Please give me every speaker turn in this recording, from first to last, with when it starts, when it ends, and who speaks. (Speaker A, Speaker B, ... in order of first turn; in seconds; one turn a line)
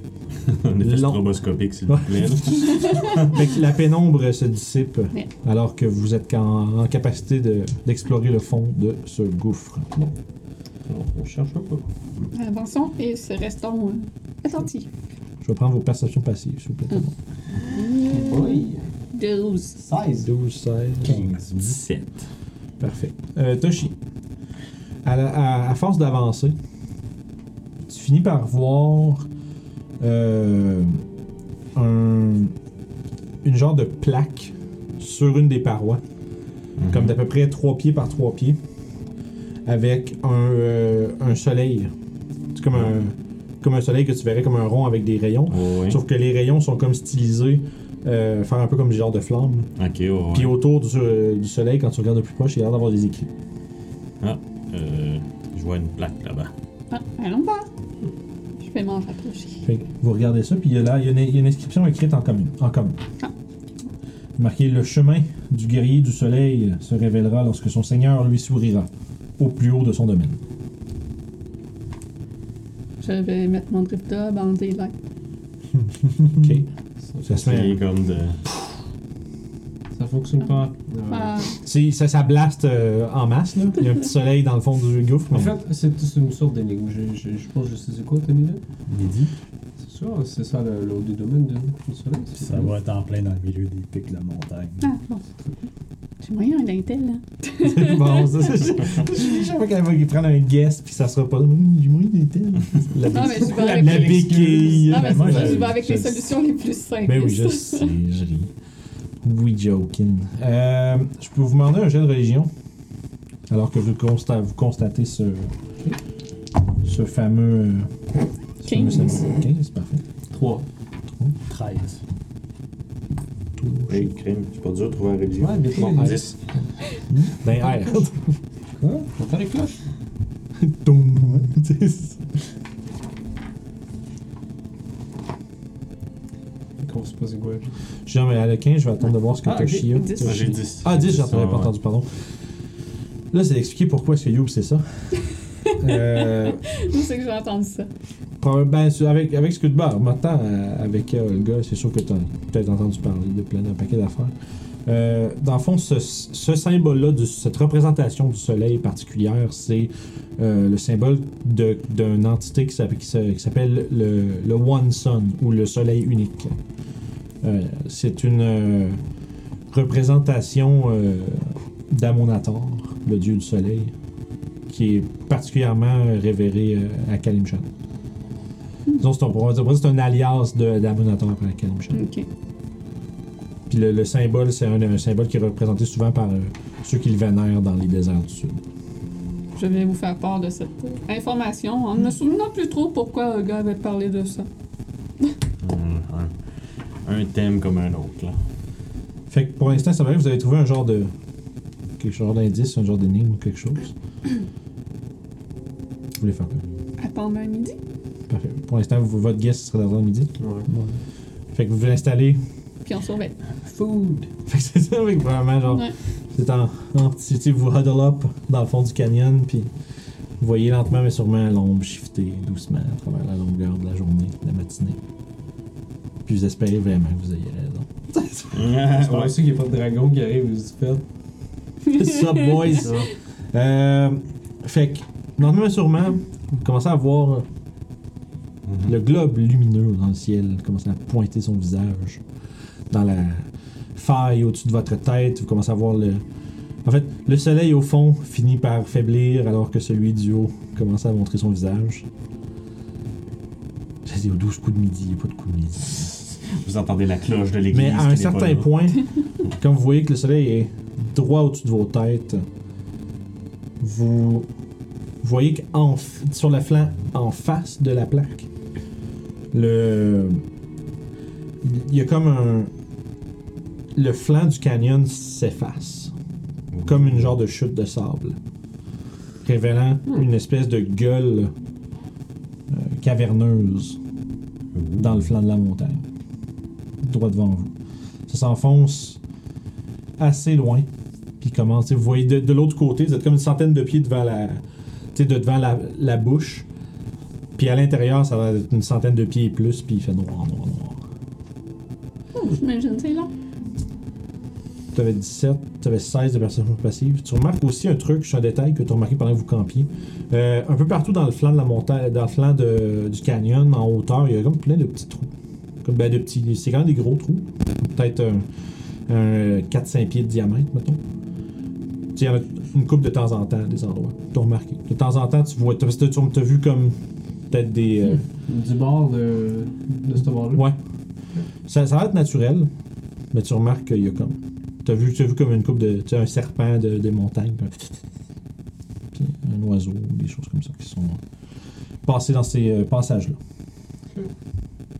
Speaker A: 0.5-3.4
Speaker B: 0.8-1.3
Speaker B: 1.9-9.9
Speaker C: 10.9-11.8
Speaker D: 12.3-14.9
Speaker B: 15.4-17.1
Speaker D: 17.7-19.8
Speaker C: 18.1-18.9
Speaker C: 19.8-20.3
Speaker B: 20.2-21.2
Speaker E: 21.0-21.4
Speaker A: 21.1-22.2
Speaker B: 22.8-23.9
Speaker B: 25.0-26.5
Speaker B: 27.9-29.2
Speaker B: 30.0-31.0
Speaker B: 31.7-32.5
Speaker B: 33.4-36.0
Speaker A: 36.8-37.2
Speaker B: 36.9-38.6
Speaker B: 39.6-41.9
Speaker B: 42.5-49.7
Speaker A: 45.5-46.0
Speaker A: 49.8-50.6
Speaker B: 50.3-53.3
Speaker A: 54.2-56.5
Speaker D: 56.9-57.7
Speaker D: 58.6-59.6
Speaker B: 59.6-63.0
Speaker B: 64.4-70.4
Speaker D: 73.0-74.9
Speaker B: 76.4-76.7
Speaker B: 77.2-77.8
Speaker A: 77.4-78.4
Speaker C: 79.9-81.5
Speaker D: 81.1-81.6
Speaker B: 81.6-85.5
Speaker C: 85.3-88.6
Speaker E: 88.9-89.3
Speaker C: 89.8-92.7
Speaker E: 92.3-94.8
Speaker D: 94.8-95.2
Speaker D: 96.2-98.4
Speaker B: 97.6-106.4
Speaker D: 103.1-107.9
Speaker C: 103.6-105.5
Speaker E: 104.9-105.8
Speaker B: 107.0-108.5
Speaker B: 109.2-112.5
Speaker B: 113.5-115.5
Speaker B: 116.8-117.9
Speaker B: 118.6-120.0
Speaker D: 118.6-119.3
Speaker C: 120.3-120.6
Speaker E: 121.5-122.0
Speaker B: 123.6-124.1
Speaker A: 123.9-126.4
Speaker C: 125.3-126.6
Speaker E: 127.1-127.3
Speaker B: 127.4-128.2
Speaker E: 128.8-129.1
Speaker C: 129.2-129.8
Speaker B: 130.6-132.2
Speaker C: 136.8-137.7
Speaker B: 138.1-142.1
Speaker C: 139.4-139.9
Speaker D: 139.9-140.6
Speaker A: 140.2-141.7
Speaker B: 143.3-145.1
Speaker B: 145.8-146.6
Speaker D: 145.9-147.9
Speaker B: 148.4-154.3
Speaker B: 154.8-166.5
Speaker B: 167.4-169.0
Speaker B: 169.7-173.9
Speaker B: 174.7-177.7
Speaker B: 179.0-182.0
Speaker D: 181.9-182.2
Speaker B: 183.7-188.6
Speaker D: 189.5-194.5
Speaker A: 195.6-196.3
Speaker A: 197.0-198.4
Speaker B: 199.3-201.1
Speaker B: 202.0-203.9
Speaker B: 206.2-206.6
Speaker D: 207.0-207.8
Speaker B: 208.3-210.3
Speaker C: 210.4-210.7
Speaker E: 210.7-211.0
Speaker B: 211.5-212.4
Speaker D: 212.8-213.3
Speaker E: 213.7-214.2
Speaker B: 214.5-219.7
Speaker D: 215.7-215.9
Speaker B: 220.4-225.0
Speaker B: 226.2-228.6
Speaker A: 228.5-229.4
Speaker C: 228.8-231.0
Speaker B: 231.9-237.4
Speaker C: 232.7-233.1
Speaker A: 238.7-238.9
Speaker B: 238.8-242.2
Speaker B: 242.9-246.2
Speaker B: 246.8-252.0
Speaker B: 254.1-256.1
Speaker A: 256.4-258.7
Speaker B: 257.7-262.4
Speaker B: 263.8-264.5
Speaker B: 265.2-268.5
Speaker B: 269.5-270.4
Speaker B: 271.6-272.7
Speaker B: 273.9-276.1
Speaker A: 276.7-277.2
Speaker B: 276.8-278.4
Speaker B: 279.4-281.5
Speaker B: 282.7-284.0
Speaker A: 284.7-285.3
Speaker B: 285.0-286.0
Speaker B: 287.0-287.7
Speaker B: 288.3-289.2
Speaker B: 290.2-290.9
Speaker B: 291.4-294.6
Speaker B: 295.1-296.6
Speaker B: 297.5-301.0
Speaker D: 302.3-303.3
Speaker B: 304.9-315.3
Speaker B: 315.8-318.4
Speaker B: 319.1-321.0
Speaker B: 322.1-327.0
Speaker B: 327.5-328.2
Speaker C: 328.4-330.7
Speaker B: 330.5-330.8
Speaker B: 331.6-332.7
Speaker B: 333.3-337.9
Speaker B: 339.1-341.2
Speaker B: 342.0-343.4